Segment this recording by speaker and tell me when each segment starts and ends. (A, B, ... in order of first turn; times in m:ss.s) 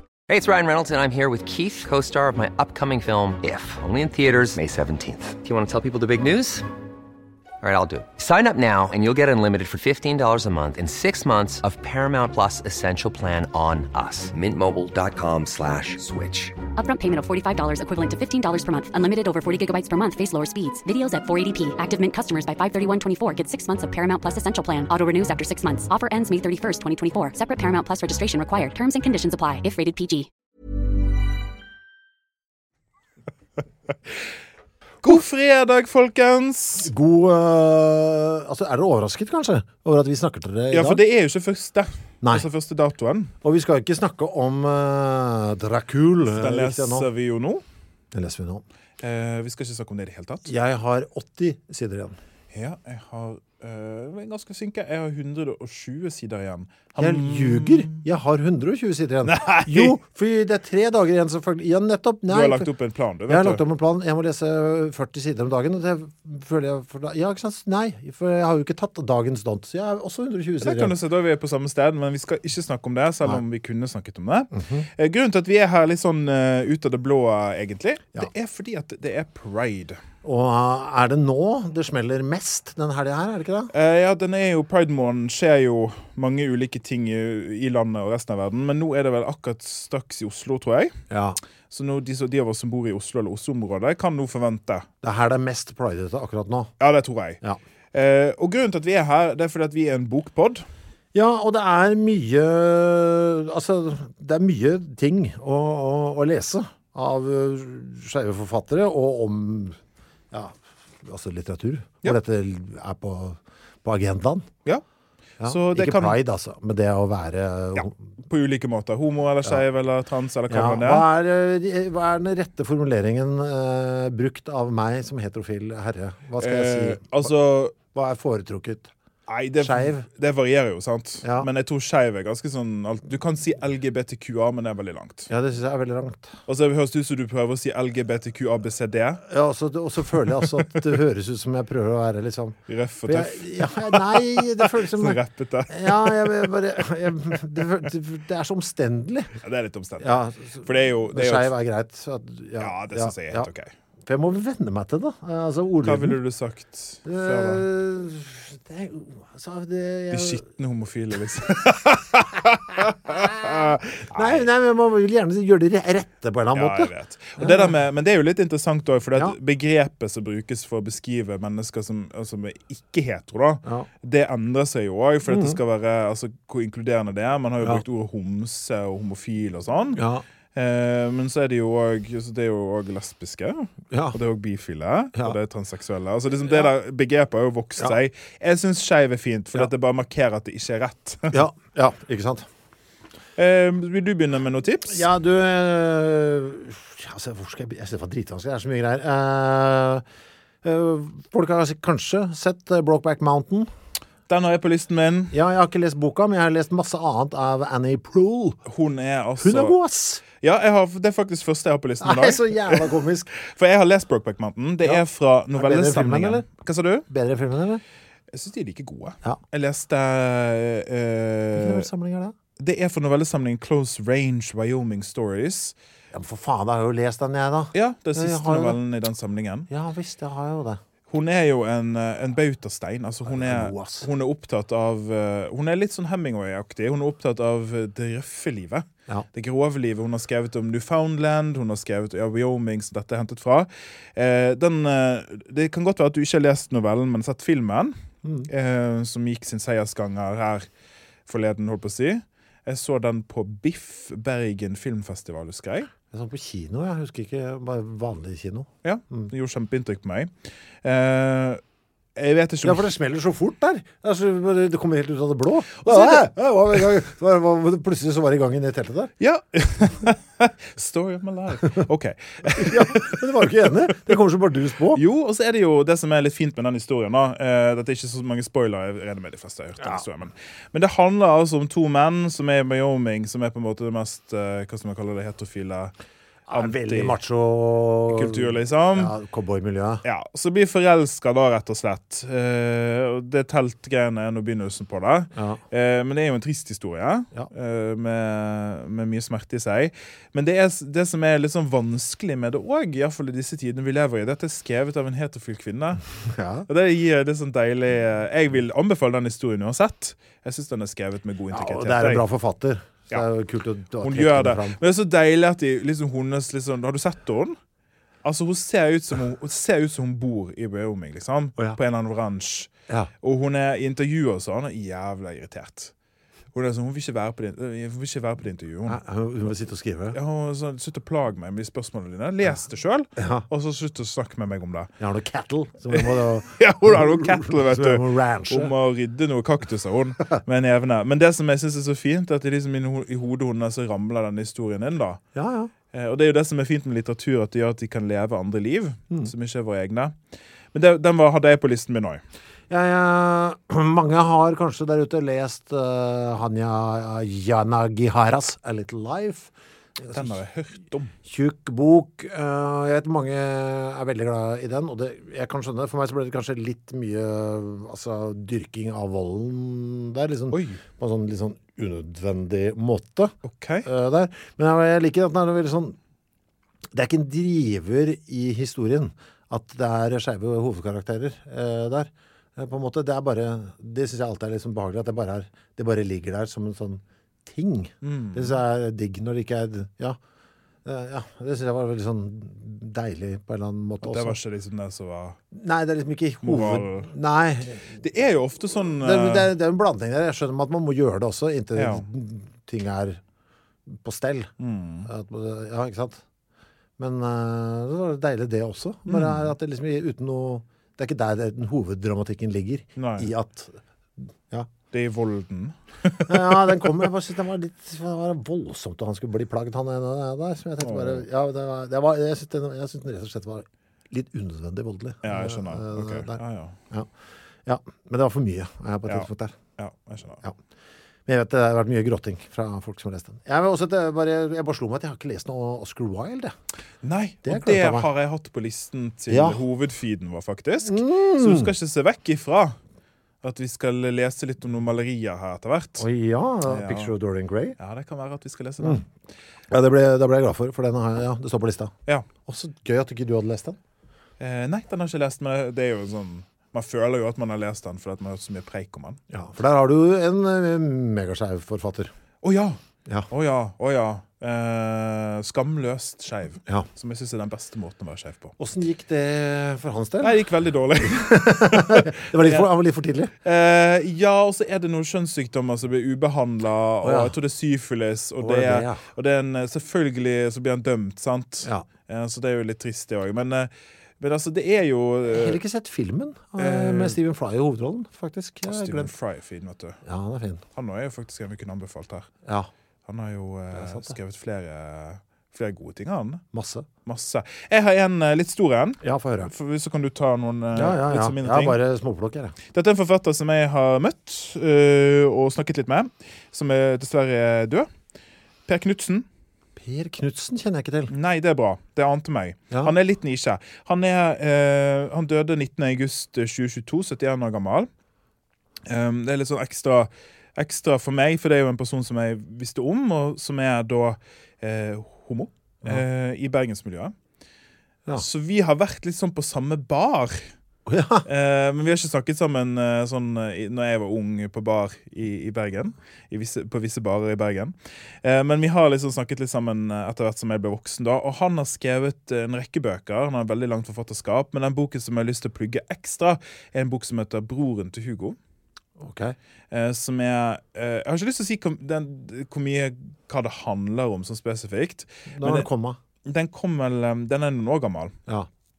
0:00.3-0:06.6 A
0:07.6-0:16.6 A
0:16.8-0:30.3 B
0:35.0-0:36.9 C
0:36.8-0:41.0 D
0:40.7-0:43.3 C
0:43.4-0:47.1 D
0:46.3-0:47.6 C
0:48.1-0:48.6 D
0:49.0-0:50.5 C
0:50.4-0:52.2 D
0:52.5-0:58.0 C
0:57.0-1:02.7 D
0:59.2-1:00.0 C
1:02.3-1:03.6 C
1:03.3-1:10.9 D
1:10.6-1:20.0 C
1:14.5-1:14.9 D
1:20.2-1:23.7 D
1:23.7-1:30.9 C
1:31.1-1:31.4 D
1:31.7-1:34.9 C
1:35.0-1:36.7 D
1:36.8-1:37.4 C
1:37.9-1:40.6 C
1:41.1-1:49.8 D
1:50.3-1:54.5 D
1:55.4-1:56.2 C
1:55.4-1:57.9 D
1:57.8-2:01.0 C
2:00.5-2:07.3 D
2:06.4-2:07.7 C
2:07.8-2:08.9 D
2:09.3-2:15.3 C
2:09.6-2:10.1 D
2:11.2-2:11.5 D
2:15.3-2:16.3 D
2:16.5-2:19.2 C
2:19.2-2:29.3 D
2:22.7-2:26.5 C
2:29.4-2:31.5 C
2:30.0-2:33.5 D
2:32.6-2:33.7 C
2:34.0-2:36.2 D
2:35.8-2:37.6 C
2:37.0-2:40.4 D
2:40.1-2:44.5 C
2:44.1-2:47.8 D
2:46.5-3:00.0 C
2:55.2-2:55.6 D
2:59.9-3:00.2 D
3:00.5-3:11.4 C
3:03.9-3:04.2 D
3:11.3-3:12.4 D
3:13.4-3:15.1 C
3:14.9-3:20.0 D
3:20.6-3:23.7 D
3:24.3-3:25.3 C
3:25.3-3:28.6 D
3:28.7-3:29.8 C
3:29.4-3:30.2 D
3:30.4-3:37.1 C
3:32.0-3:33.3 D
3:34.8-3:36.5 D
3:37.1-3:37.8 D
3:38.3-3:41.8 C
3:41.6-3:42.3 D
3:42.6-3:45.7 C
3:46.1-3:48.8 D
3:47.7-3:49.7 C
3:49.7-3:50.8 D
3:51.1-4:07.9 C
3:53.3-3:54.1 D
4:08.2-4:08.5 D
4:08.5-4:10.7 C
4:11.3-4:15.9 C
4:16.1-4:19.3 D
4:18.8-4:20.3 C
4:20.8-4:21.6 C
4:22.2-4:22.9 C
4:22.6-4:29.1 D
4:25.8-4:26.2 C
4:29.2-4:33.2 C
4:32.6-4:35.0 D
4:34.9-4:45.9 C
4:46.5-4:50.0 D
4:46.5-4:47.2 C
4:48.1-4:49.1 C
4:50.0-5:06.0 C
4:55.4-4:55.6 D
5:06.2-5:06.7 D
5:06.7-5:12.2 C
5:11.5-5:14.8 D
5:14.0-5:17.6 C
5:18.2-5:22.7 C
5:23.2-5:25.9 C
5:26.5-5:29.0 C
5:28.8-5:30.2 D
5:30.1-5:34.9 C
5:33.2-5:33.4 D
5:35.0-5:38.7 D
5:35.9-5:45.2 C
5:45.3-5:45.7 D
5:45.9-5:50.2 C
5:50.7-5:52.2 C
5:52.7-6:00.4 D
6:00.1-6:01.1 C
6:01.2-6:16.0 D
6:10.5-6:10.8 C
6:13.4-6:13.8 C
6:16.9-6:30.2 D
6:28.0-6:28.5 C
6:30.8-6:34.4 D
6:34.0-6:35.4 C
6:35.5-6:38.0 D
6:36.4-6:37.1 C
6:38.0-6:39.5 C
6:39.0-6:43.2 D
6:41.8-6:42.0 C
6:43.9-6:44.5 D
6:44.6-6:45.1 C
6:45.0-6:46.2 D
6:47.0-6:53.8 D
6:49.1-6:49.5 C
6:53.0-6:53.3 C
6:54.9-6:56.8 C
6:56.3-7:06.4 D
7:00.8-7:01.2 C
7:05.2-7:06.8 C
7:07.6-7:09.5 D
7:09.1-7:10.4 C
7:11.3-7:16.5 D
7:17.0-7:22.8 C
7:17.4-7:18.1 D
7:19.3-7:19.6 D
7:20.8-7:21.7 D
7:23.4-7:26.0 C
7:26.0-7:27.8 D
7:26.7-7:27.1 C
7:27.8-7:29.1 C
7:29.7-7:31.9 D
7:32.4-7:33.8 D
7:34.4-7:39.2 C
7:39.3-7:42.1 D
7:42.4-7:42.8 C
7:43.3-7:48.5 C
7:48.6-7:50.4 D
7:50.2-7:52.7 C
7:51.1-7:53.3 D
7:53.4-8:05.6 C
7:57.0-7:57.4 D
7:58.4-7:59.0 D
8:05.3-8:09.1 D
8:06.6-8:07.2 C
8:08.6-8:10.0 C
8:10.0-8:10.6 D
8:10.7-8:12.3 C
8:12.4-8:12.7 D
8:13.1-8:16.4 C
8:13.7-8:14.1 D
8:16.5-8:16.9 D
8:17.0-8:21.8 C
8:19.0-8:19.5 D
8:20.7-8:22.6 D
8:22.7-8:27.9 C
8:28.7-8:29.2 C
8:29.8-8:31.1 D
8:31.1-8:37.9 C
8:38.8-8:47.1 C
8:48.1-8:50.5 C
8:50.8-8:51.2 D
8:51.2-9:08.4 C
9:09.0-9:09.4 D
9:09.7-9:15.7 C
9:15.3-9:16.0 D
9:16.2-9:18.2 C